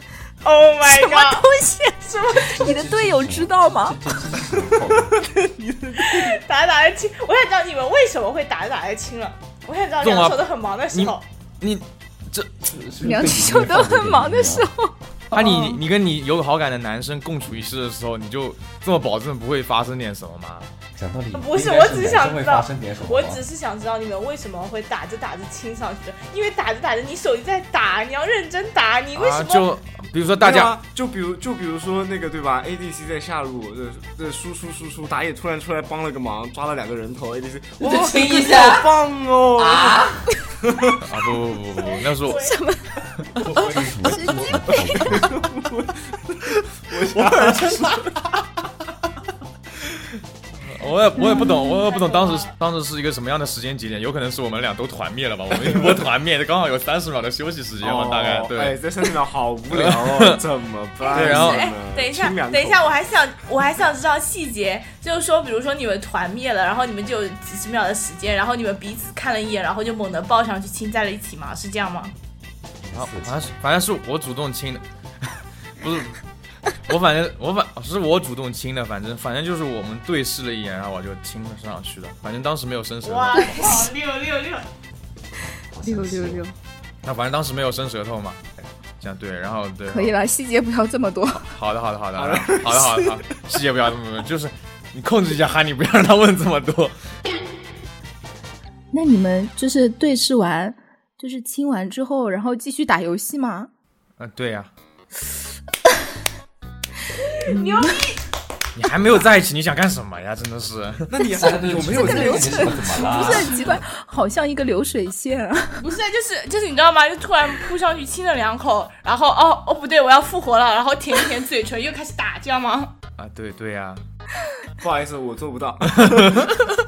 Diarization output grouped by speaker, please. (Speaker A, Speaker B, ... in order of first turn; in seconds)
Speaker A: 0.4-1.5, 2.1-2.5, 6.0-11.2, 21.3-29.7, 41.8-42.6, 51.7-52.5, 61.0-72.1, 83.0-84.7, 107.5-108.2, 115.8-123.0
Speaker B: 0.8-4.0, 13.0-15.8, 42.2-45.3, 51.2-51.8, 83.4-83.9, 85.8-86.5, 89.9-91.5, 98.9-103.7, 107.5-108.1, 111.4-115.8
Speaker C: 2.3-5.2, 12.6-14.7, 20.9-23.4, 37.9-38.8, 39.6-40.2, 43.4-45.4, 72.8-73.5, 85.7-86.4, 111.3-113.7
Speaker D: 4.9-6.4, 30.4-41.0, 43.4-44.1, 45.0-48.1, 57.8-63.0, 92.2-93.2, 111.1-113.4, 124.8-126.6
Speaker E: 10.0-12.7, 15.3-20.7, 29.1-30.8, 41.0-42.4, 47.1-48.1, 50.6-58.8, 59.7-60.4, 61.1-61.6, 72.9-76.2, 76.8-83.5, 87.0-90.2, 91.4-97.0, 104.2-104.7, 108.7-111.1, 123.2-124.0, 126.0-126.5